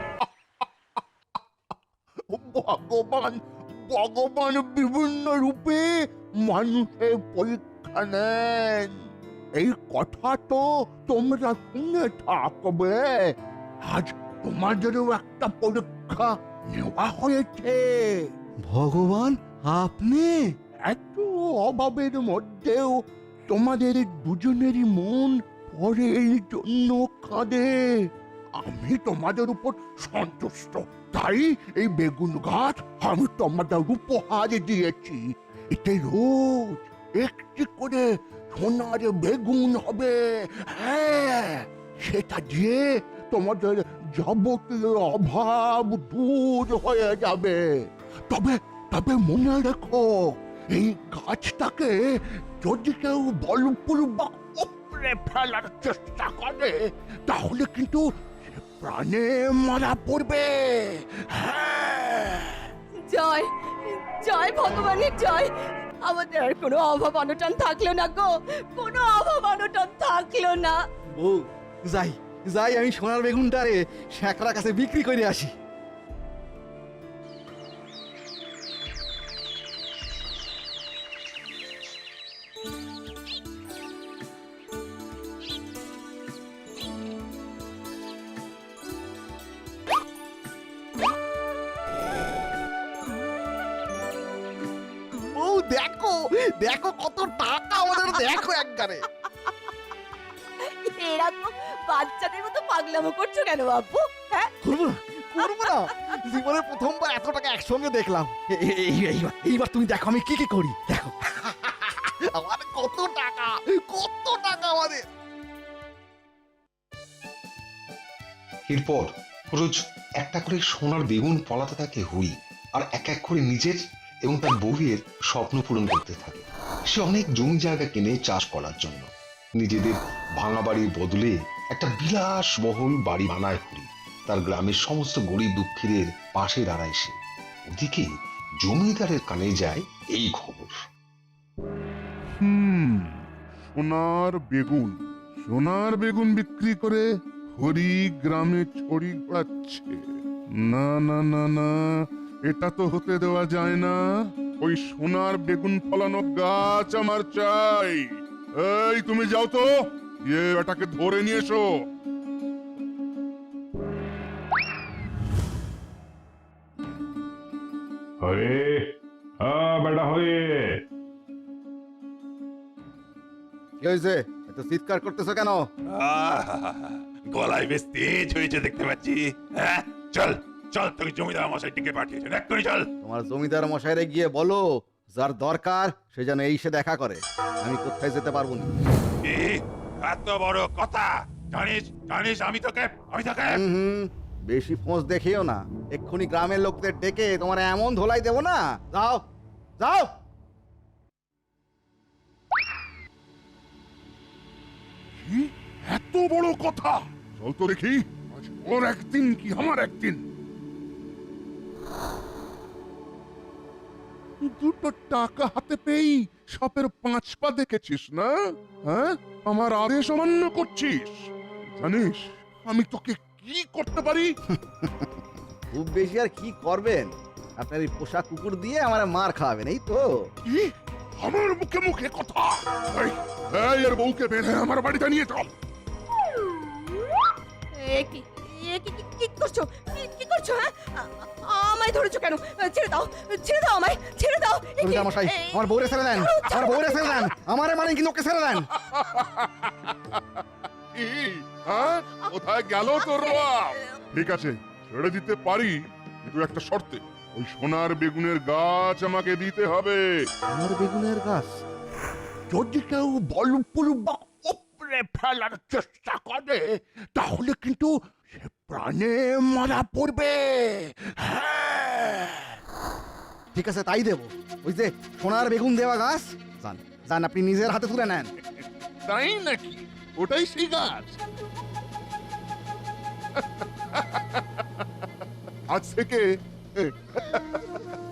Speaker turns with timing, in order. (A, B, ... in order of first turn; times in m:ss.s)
0:02.3-0:09.0 A
0:09.6-0:13.3 A
0:13.8-0:18.3 A
0:18.7-0:20.5 B
0:20.8-0:35.2 A
0:35.7-0:47.6 A
0:48.3-0:52.0 A
0:52.6-1:02.7 A
1:03.0-1:05.5 C
1:06.0-1:10.8 C
1:11.2-1:15.5 B
1:35.3-1:39.0 B
1:40.6-1:44.5 C
1:44.6-1:55.0 B
1:45.5-1:45.7 C
1:58.7-2:09.1 D
2:09.6-2:17.1 D
2:17.7-2:18.0 D
2:18.6-2:20.7 D
2:22.4-2:23.2 E
2:23.7-2:30.0 E
2:30.6-2:34.0 E
2:34.6-2:39.7 E
2:40.3-2:41.7 E
2:53.8-2:55.6 B
2:55.9-3:02.9 F
3:03.0-3:08.7 B
3:09.2-3:13.7 F
3:13.5-3:19.2 B
3:19.8-3:20.1 B
3:25.2-3:30.2 E
3:34.4-3:44.4 E
3:44.5-3:45.0 B
3:45.7-3:50.1 B
3:50.4-3:55.5 E
3:57.7-4:07.3 C
4:04.8-4:08.7 B
4:08.8-4:10.4 E
4:10.9-4:20.1 E
4:13.1-4:13.4 C
4:20.5-4:21.6 B
4:22.5-4:32.6 A
4:33.5-4:38.3 B
4:39.0-4:41.2 E
4:43.4-4:44.6 E
4:45.7-4:46.2 E
4:46.8-4:47.8 E